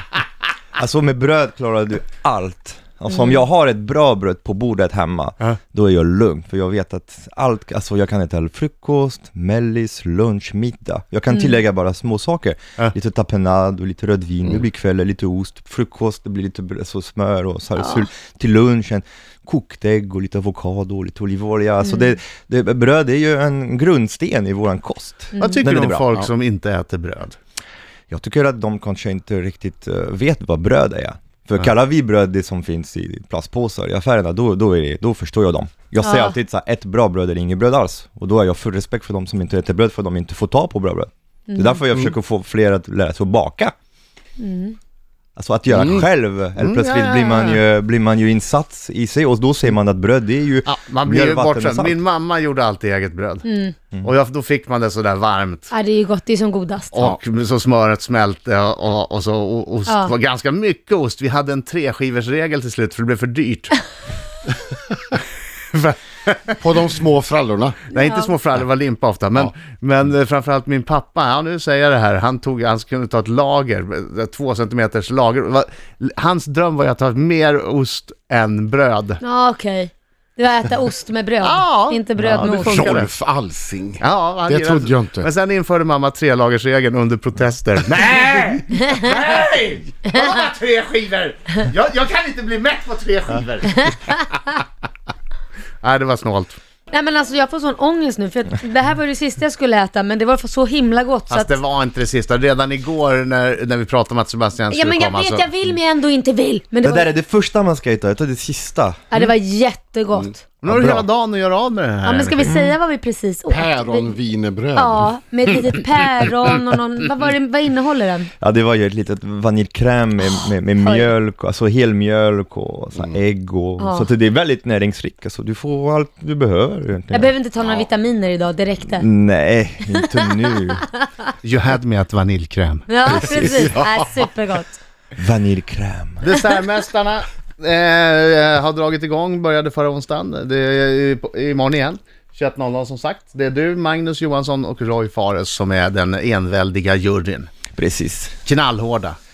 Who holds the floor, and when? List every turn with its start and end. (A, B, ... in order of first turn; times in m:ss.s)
0:00.8-0:26.1 A
0:03.1-0:03.4 B
0:17.8-0:18.1 B
0:21.8-0:22.1 B
0:25.3-0:25.6 B
0:25.4-0:27.4 C
0:28.1-0:43.7 A
0:36.0-0:36.4 B
0:41.5-0:41.8 B
0:44.4-0:44.8 B
0:45.4-0:52.0 A
0:46.6-0:47.6 C
0:50.6-0:53.5 C
0:53.4-0:53.7 B
0:54.0-0:55.7 C
0:55.7-0:57.0 B
0:56.9-1:03.8 C
1:05.7-1:06.6 C
1:06.6-1:07.9 D
1:07.9-1:19.2 C
1:08.0-1:08.3 B
1:19.2-1:23.0 B
1:21.4-1:23.1 C
1:22.2-1:22.5 A
1:22.5-1:25.3 D
1:24.0-1:34.0 C
1:33.8-1:34.2 B
1:35.8-1:36.6 C
1:36.9-1:41.6 B
1:41.3-1:45.5 C
1:44.7-1:47.1 B
1:46.8-1:49.0 A
1:49.1-1:50.4 B
1:50.6-1:52.5 C
1:50.6-1:51.0 A
1:52.0-1:54.1 B
1:52.4-1:52.8 A
1:53.5-1:56.0 D
1:54.7-1:58.3 B
1:58.4-2:07.3 A
2:00.2-2:01.1 B
2:03.8-2:04.1 B
2:07.1-2:09.1 B
2:08.9-2:10.8 A
2:09.9-2:10.8 B
2:11.4-2:13.5 C
2:12.9-2:14.8 B
2:15.2-2:16.2 A
2:16.2-2:27.5 C
2:27.8-2:28.4 A
2:28.4-2:29.2 C